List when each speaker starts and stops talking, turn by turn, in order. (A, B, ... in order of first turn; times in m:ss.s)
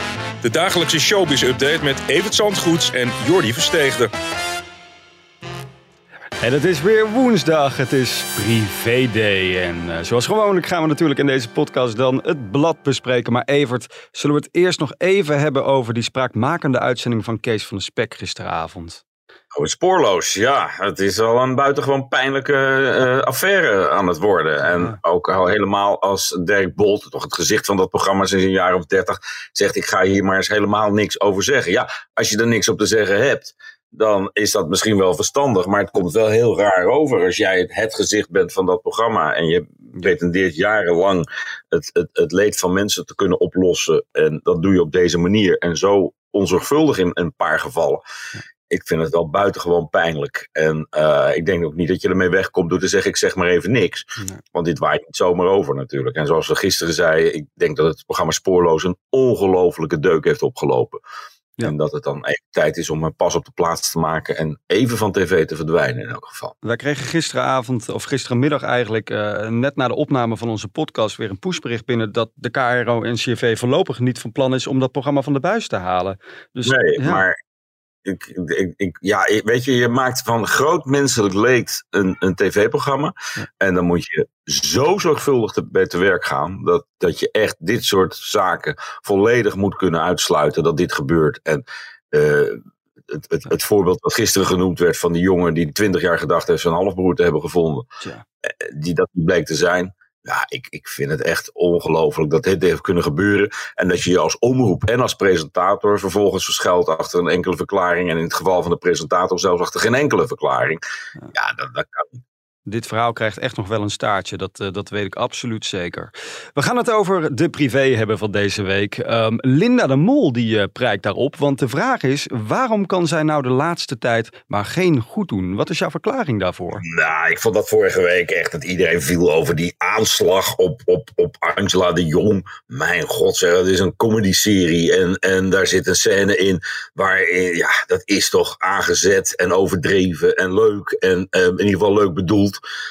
0:00.4-0:04.1 A
0:06.4-0:19.0 B
0:19.5-0:48.0 C
0:48.7-1:01.0 C
1:01.6-1:06.5 C
1:06.6-1:17.2 B
1:16.7-1:17.4 C
1:18.0-1:32.6 C
1:33.1-1:37.9 C
1:38.4-1:50.8 C
1:51.3-1:52.2 C
1:52.7-2:06.8 B
2:06.8-2:22.6 C